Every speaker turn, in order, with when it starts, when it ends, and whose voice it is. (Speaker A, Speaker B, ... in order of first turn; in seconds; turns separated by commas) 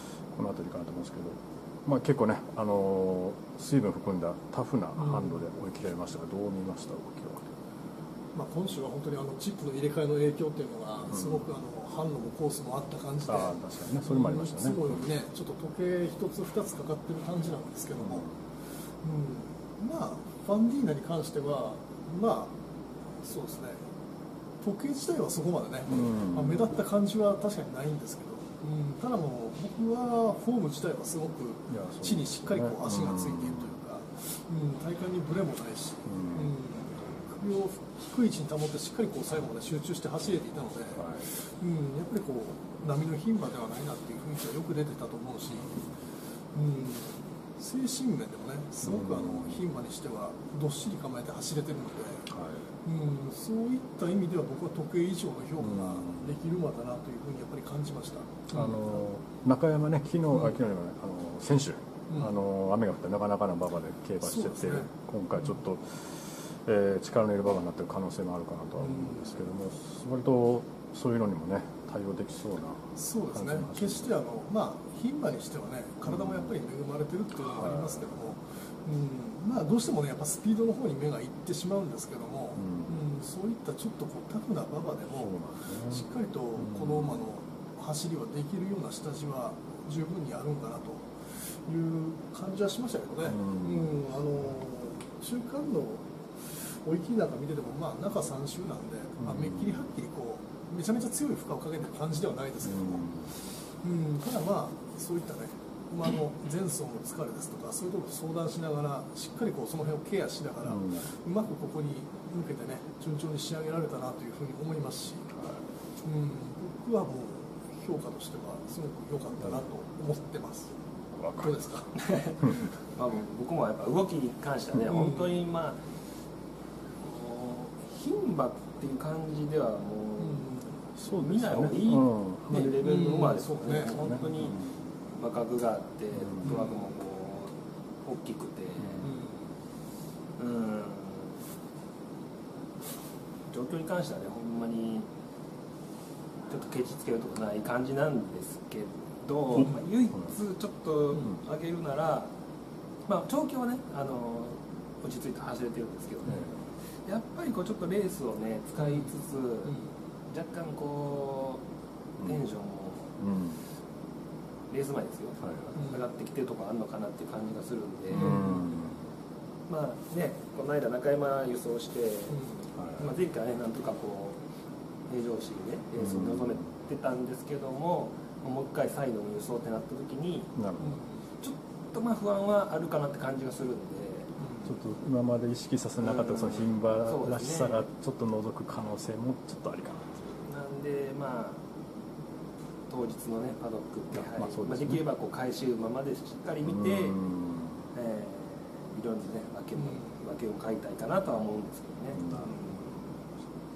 Speaker A: 0.3-7.5, Speaker B: 5.0-5.4, Speaker B: 8.3-18.3, Speaker A: 11.1-11.5, Speaker A: 13.3-15.1, Speaker A: 17.9-18.4, Speaker B: 19.0-22.5, Speaker B: 23.2-23.8, Speaker B: 24.6-45.8, Speaker A: 25.9-26.7, Speaker A: 31.7-33.8, Speaker A: 36.1-36.5, Speaker A: 40.9-41.3, Speaker B: 46.5-52.3, Speaker A: 48.8-49.6, Speaker A: 52.3-52.6, Speaker B: 52.8-59.0, Speaker A: 55.6-56.3, Speaker A: 58.5-74.1, Speaker B: 64.2-65.6, Speaker B: 68.8-69.3, Speaker B: 73.0-115.3, Speaker A: 76.1-76.5, Speaker A: 77.4-78.2, Speaker A: 82.6-83.0, Speaker A: 85.1-87.2, Speaker A: 93.2-94.0, Speaker A: 99.2-99.8, Speaker A: 102.6-103.3, Speaker A: 110.6-111.1, Speaker A: 115.3-115.7, Speaker B: 116.0-120.8, Speaker A: 121.1-121.6, Speaker B: 121.4-122.0, Speaker C: 122.0-125.9, Speaker B: 125.0-125.4, Speaker C: 127.0-130.6, Speaker B: 130.2-130.8, Speaker A: 131.0-132.8, Speaker C: 131.1-134.6, Speaker B: 132.8-134.3, Speaker A: 133.9-134.8, Speaker C: 135.2-139.1, Speaker A: 136.2-136.5, Speaker B: 136.4-136.9, Speaker A: 138.8-139.1, Speaker B: 139.0-139.4, Speaker C: 140.4-141.4, Speaker C: 143.5-145.1, Speaker C: 146.5-152.3, Speaker C: 153.1-159.8, Speaker A: 156.3-156.6, Speaker B: 158.8-159.8, Speaker C: 160.3-161.6, Speaker C: 162.2-163.2, Speaker A: 162.2-162.5, Speaker A: 163.2-163.6, Speaker C: 164.7-168.6, Speaker A: 165.4-165.7, Speaker B: 165.8-166.1, Speaker A: 168.1-169.0, Speaker B: 168.1-168.7, Speaker C: 169.7-172.4, Speaker B: 172.3-173.1, Speaker A: 172.8-173.1, Speaker C: 173.0-174.4, Speaker C: 175.1-180.5, Speaker A: 176.0-176.7, Speaker A: 180.6-181.0, Speaker B: 180.8-181.2, Speaker C: 181.4-184.3, Speaker B: 184.4-184.7, Speaker A: 184.7-190.3, Speaker C: 186.0-187.9, Speaker C: 190.4-191.6, Speaker C: 192.9-197.2, Speaker A: 194.1-195.0, Speaker A: 196.6-197.9, Speaker C: 197.9-203.1, Speaker B: 199.8-200.2, Speaker A: 202.1-202.7